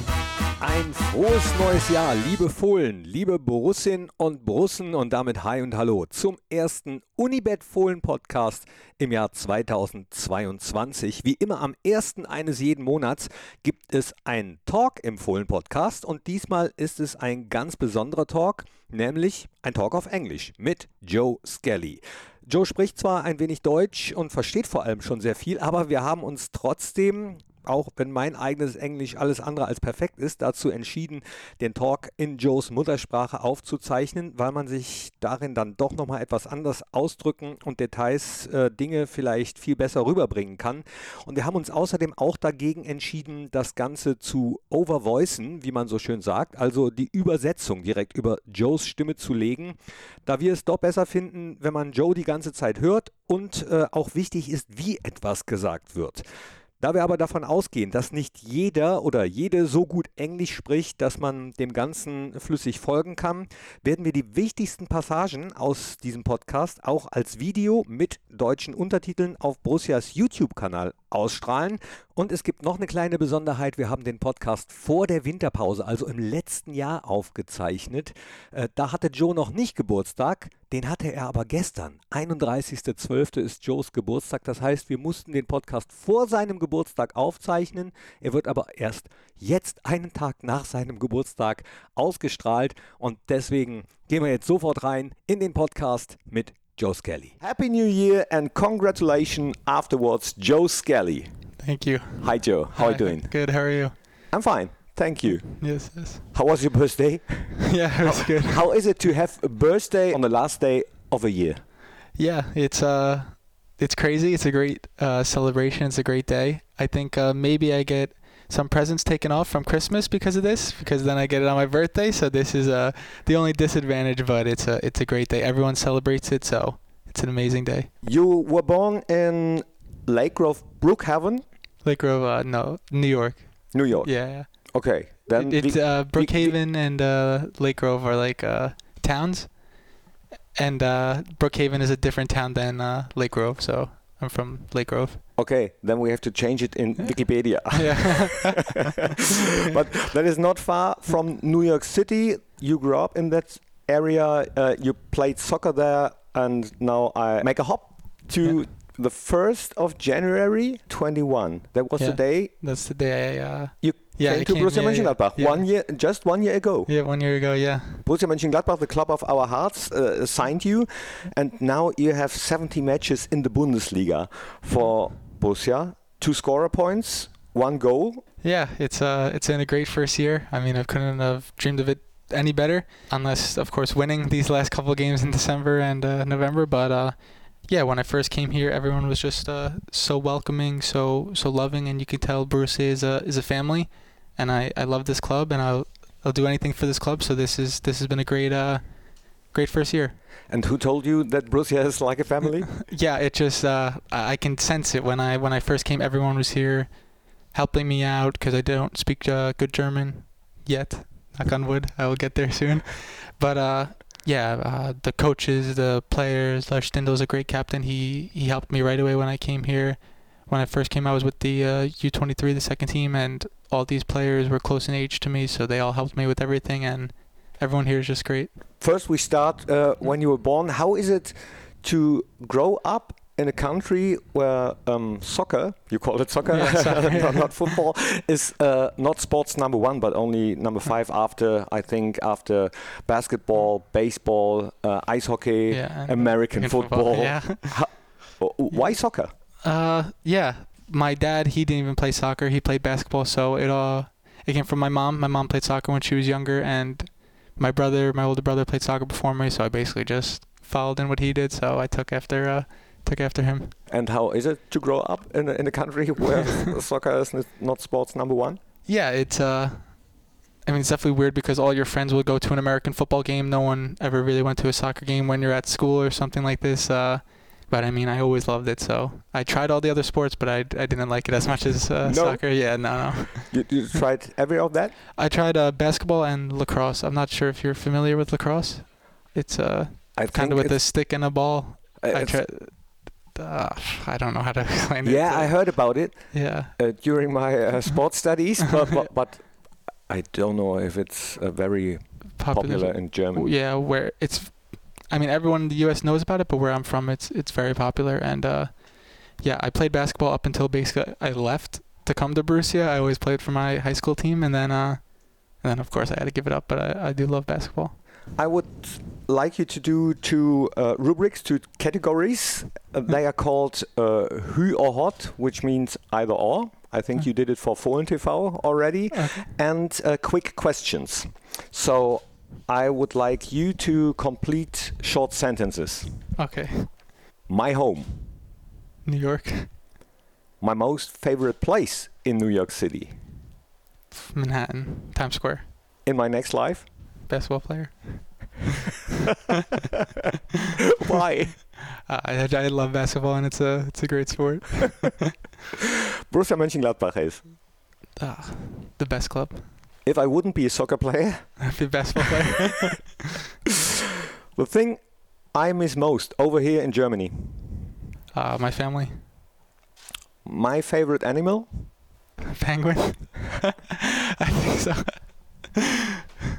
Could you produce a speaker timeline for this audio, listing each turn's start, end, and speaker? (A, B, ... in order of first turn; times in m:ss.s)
0:00.6-0:56.2 A
0:56.8-1:37.4 A
1:37.4-1:41.3 B
1:41.6-1:43.9 C
1:42.2-1:43.4 B
1:44.3-1:51.6 B
1:45.3-1:46.2 C
1:47.6-1:48.6 C
1:52.2-2:07.9 C
2:08.0-2:11.4 B
2:11.8-2:14.7 C
2:13.7-2:16.6 B
2:15.3-2:19.6 C
2:20.6-2:25.2 C
2:25.4-2:42.5 B
2:27.7-2:29.1 C
2:42.0-2:45.7 C
2:43.8-2:46.9 B
2:46.9-2:48.0 C
2:48.0-2:58.2 B
2:58.4-3:18.9 C
3:19.4-3:20.2 C
3:20.5-3:22.8 B
3:22.8-3:48.5 C
3:48.8-4:09.3 B
3:56.5-3:57.7 C
4:05.7-4:08.0 C
4:09.6-4:23.8 C
4:23.9-4:28.6 B
4:28.9-4:30.0 C
4:30.6-4:43.6 C
4:42.0-4:42.6 B
4:43.4-4:45.0 B
4:45.2-4:56.7 C
4:50.2-4:50.9 B
4:52.0-4:52.4 B
4:55.0-5:03.5 B
5:02.4-5:18.0 C
5:18.4-5:36.3 B
5:29.1-5:29.5 C
5:36.4-5:36.9 C
5:37.5-5:38.2 B
5:39.0-5:39.8 C
5:40.6-5:43.1 B
5:44.3-5:45.7 C
5:46.0-5:46.9 B
5:47.3-5:48.6 C
5:51.0-5:51.6 B
5:51.7-5:55.3 C
5:55.8-5:57.5 B
5:58.2-5:59.7 C
6:00.0-6:01.8 B
6:01.6-6:03.2 C
6:04.5-6:07.8 B
6:08.3-6:09.2 C
6:10.4-6:11.9 B
6:12.5-6:15.8 C